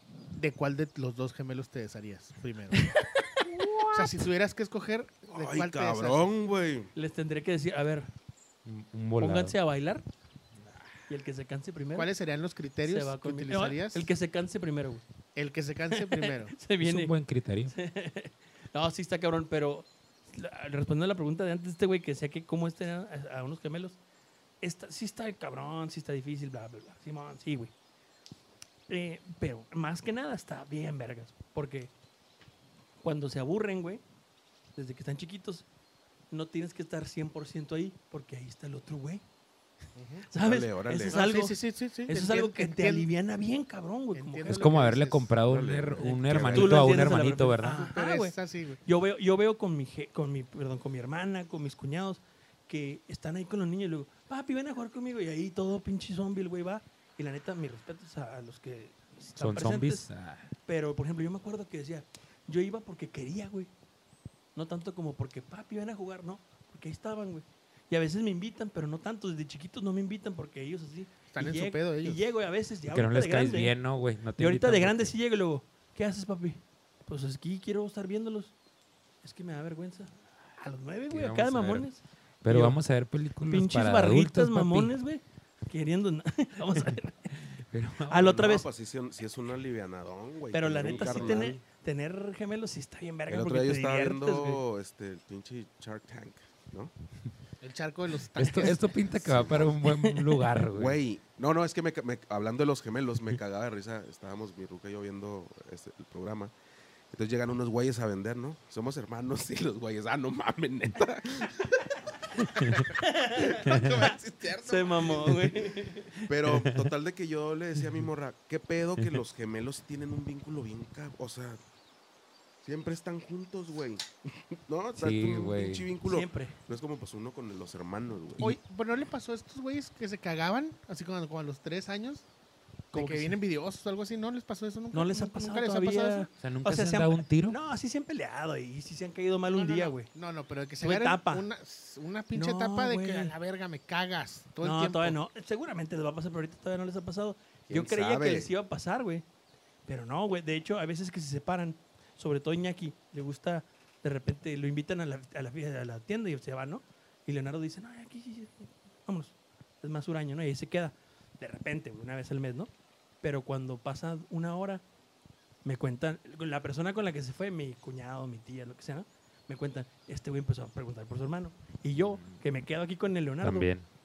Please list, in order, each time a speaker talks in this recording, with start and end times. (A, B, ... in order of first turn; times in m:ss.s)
0:00.4-0:03.0 A
0:02.7-0:03.9 B
0:03.7-0:06.2 A
0:05.3-0:06.9 C
0:07.0-0:08.1 B
0:08.6-0:09.6 D
0:09.2-0:10.0 B
0:11.1-0:12.1 B
0:12.0-0:14.1 A
0:12.8-0:15.0 B
0:15.4-0:16.6 A
0:15.9-0:17.1 B
0:16.8-0:17.7 D
0:17.7-0:24.0 B
0:24.6-0:27.7 B
0:28.9-0:31.9 B
0:33.0-0:34.0 B
0:34.8-0:35.7 B
0:36.3-0:39.2 B
0:40.0-0:40.3 A
0:40.3-0:44.7 B
0:40.4-0:41.2 C
0:41.1-0:43.1 A
0:44.1-0:45.4 A
0:44.5-0:47.9 D
0:45.4-0:46.9 C
0:46.0-1:00.1 B
0:47.6-0:48.8 A
0:59.4-1:00.5 D
1:00.6-1:03.7 B
1:04.6-1:13.8 B
1:11.3-1:12.2 A
1:12.9-1:15.2 D
1:14.4-1:18.6 B
1:19.2-1:22.8 B
1:21.1-1:21.9 D
1:22.4-1:24.9 D
1:23.5-1:27.3 B
1:27.5-1:28.4 D
1:28.1-1:28.7 B
1:28.2-1:31.6 C
1:30.5-1:34.6 B
1:30.9-1:31.6 D
1:33.3-1:36.9 C
1:37.6-1:39.8 A
1:38.4-1:41.0 D
1:40.7-1:46.5 C
1:47.1-1:55.6 C
1:52.4-1:56.2 B
1:52.6-1:52.9 D
1:53.7-1:54.0 D
1:56.1-2:01.6 C
1:56.4-1:56.9 D
1:57.8-1:58.1 D
2:02.6-2:08.6 C
2:05.0-2:05.9 D
2:06.0-2:06.6 B
2:08.4-2:12.3 A
2:12.9-2:13.4 B
2:12.9-2:16.3 A
2:14.9-2:20.1 B
2:16.4-2:17.6 D
2:19.5-2:25.2 A
2:20.8-2:21.5 B
2:22.3-2:23.3 B
2:24.6-2:29.2 B
2:27.7-2:28.5 C
2:29.9-2:42.7 B
2:43.2-2:44.8 B
2:45.6-2:53.7 B
2:52.0-2:52.4 D
2:53.4-2:53.9 D